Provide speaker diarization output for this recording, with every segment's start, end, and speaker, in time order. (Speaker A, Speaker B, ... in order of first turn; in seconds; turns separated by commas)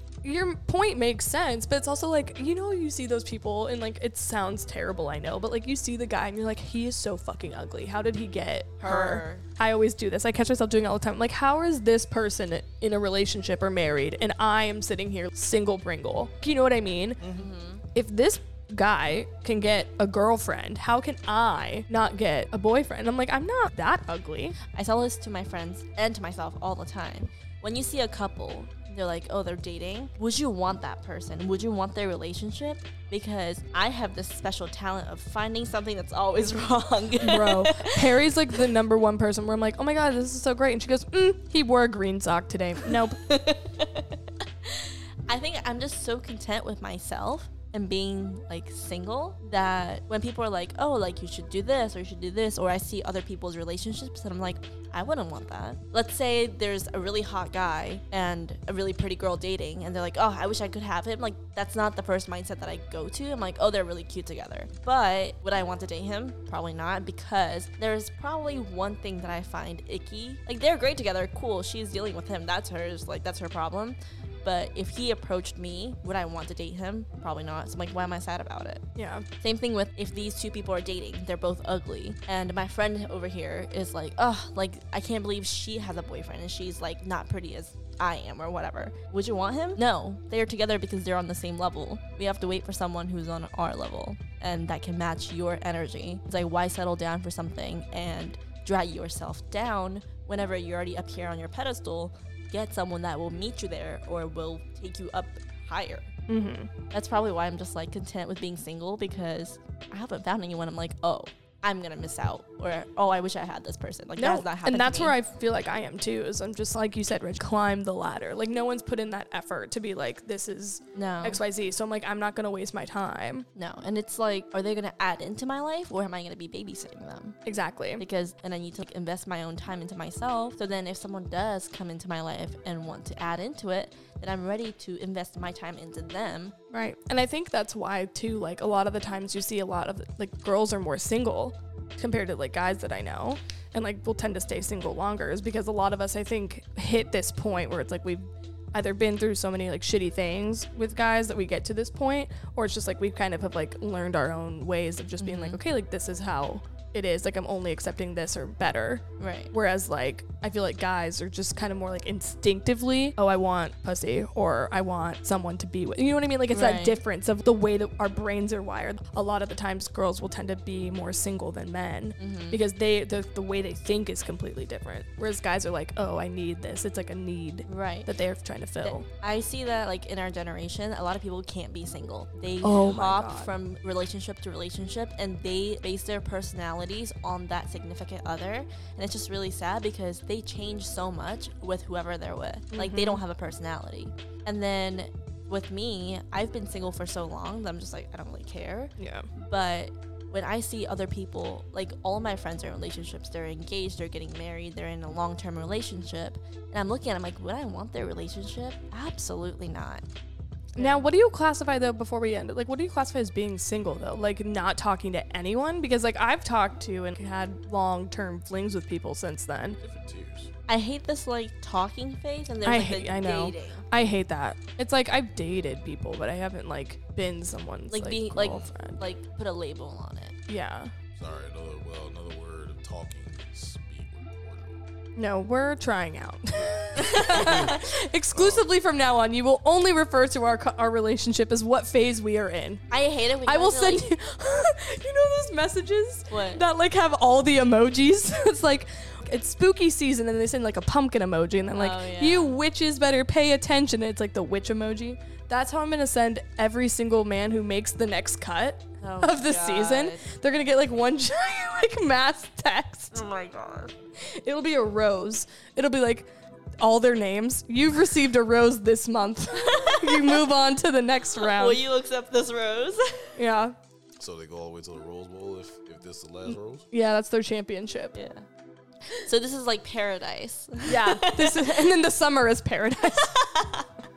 Speaker A: 0.2-17.2, Speaker B: 8.8-9.5, Speaker B: 17.2-17.8, Speaker A: 17.9-24.6, Speaker B: 24.7-38.2, Speaker A: 37.2-43.2, Speaker B: 42.9-78.8, Speaker A: 79.0-79.3, Speaker B: 79.4-106.1, Speaker A: 106.3-106.7, Speaker B: 106.9-115.2, Speaker A: 114.2-123.5, Speaker B: 121.0-121.4, Speaker B: 123.6-127.4, Speaker A: 127.5-128.0, Speaker B: 128.0-136.6, Speaker A: 136.7-179.1, Speaker B: 155.2-155.6, Speaker B: 159.2-159.5, Speaker B: 166.5-167.0, Speaker B: 172.2-172.6, Speaker B: 177.7-178.1, Speaker B: 178.8-210.0, Speaker A: 182.6-183.5, Speaker A: 192.7-193.2, Speaker A: 199.0-199.3, Speaker A: 210.8-219.8, Speaker B: 210.8-211.1, Speaker C: 219.8-220.5, Speaker B: 220.7-223.9, Speaker A: 222.6-229.0, Speaker B: 227.9-230.4, Speaker C: 228.4-228.7, Speaker A: 230.5-230.9, Speaker C: 231.2-234.8, Speaker A: 235.2-242.8, Speaker C: 236.5-238.7, Speaker B: 237.0-237.8, Speaker B: 242.9-244.1, Speaker A: 243.5-263.2, Speaker B: 246.3-246.6, Speaker B: 251.7-252.6, Speaker B: 259.0-260.2, Speaker B: 263.1-263.9, Speaker A: 264.2-266.3, Speaker A: 266.8-271.8, Speaker B: 269.5-270.5, Speaker B: 271.3-273.4, Speaker A: 273.4-273.8, Speaker C: 274.2-276.9, Speaker A: 276.9-278.2, Speaker B: 278.1-278.5, Speaker B: 279.2-281.9, Speaker A: 280.9-283.4, Speaker B: 283.0-283.9